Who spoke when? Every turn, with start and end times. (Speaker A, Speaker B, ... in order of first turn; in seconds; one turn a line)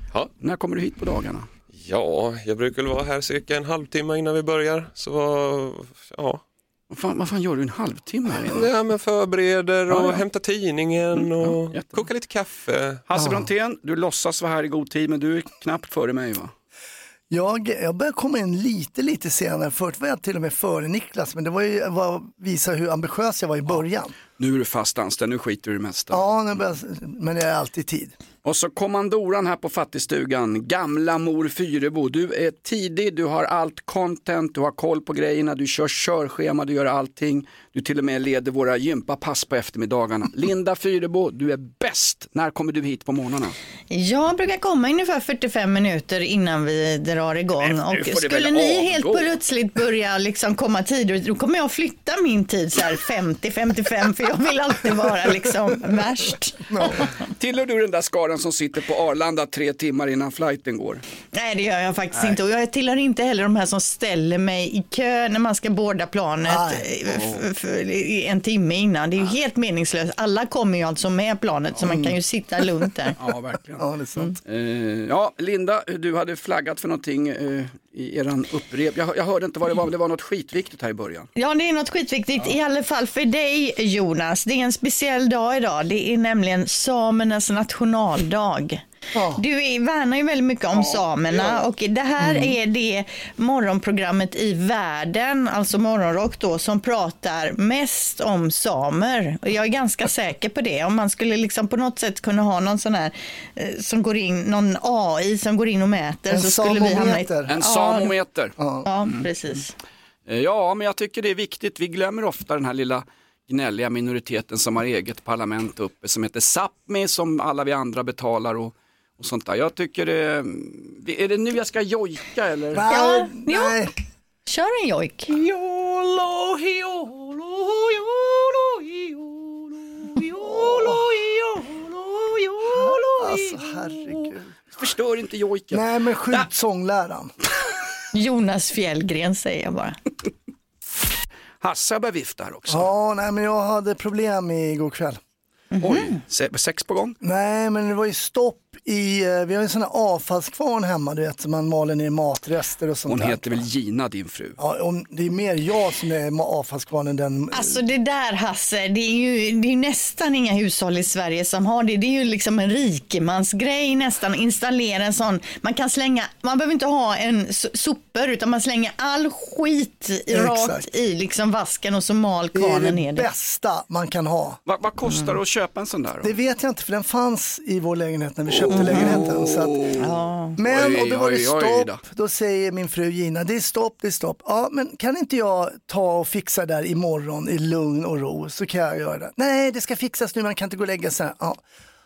Speaker A: 0.4-1.5
Speaker B: 1.8-6.4
Speaker A: 6.9-8.7
Speaker B: 8.4-13.0
Speaker A: 9.9-10.2
Speaker A: 11.1-12.0
Speaker A: 13.1-16.5
Speaker C: 13.2-13.5
Speaker C: 17.3-24.1
Speaker A: 24.4-26.2
Speaker C: 26.1-28.1
Speaker A: 28.4-43.5
Speaker D: 43.9-57.1
Speaker A: 47.6-49.4
Speaker C: 56.7-57.1
Speaker A: 57.4-61.0
Speaker D: 61.3-73.2
Speaker C: 66.4-66.8
Speaker A: 67.1-67.4
Speaker C: 71.8-72.2
Speaker C: 72.8-74.4
Speaker A: 73.2-73.8
Speaker A: 74.4-81.3
Speaker D: 81.3-88.8
Speaker C: 89.1-89.4
Speaker D: 89.3-108.1
Speaker A: 90.7-91.6
Speaker C: 92.2-92.5
Speaker C: 106.3-107.5
Speaker A: 107.5-108.5
Speaker C: 108.6-108.9
Speaker D: 108.8-109.7
Speaker A: 110.3-122.9
Speaker C: 122.7-123.9
Speaker D: 122.9-123.8
Speaker D: 124.5-125.3
Speaker A: 125.3-129.3
Speaker A: 130.3-132.7
Speaker C: 130.4-131.1
Speaker C: 132.7-134.5
Speaker A: 134.1-136.5
Speaker C: 135.7-137.3
Speaker D: 138.1-140.0
Speaker A: 141.6-142.9
Speaker C: 142.7-145.2
Speaker D: 145.8-146.2
Speaker A: 145.8-147.2
Speaker C: 147.2-153.6
Speaker A: 153.1-154.6
Speaker C: 154.6-157.8
Speaker D: 157.5-173.2
Speaker C: 170.3-170.9
Speaker C: 172.5-174.6
Speaker A: 174.7-176.3
Speaker C: 176.2-179.8
Speaker A: 178.5-180.1
Speaker D: 178.8-179.2
Speaker D: 180.0-180.5
Speaker C: 180.6-191.6
Speaker A: 180.7-182.0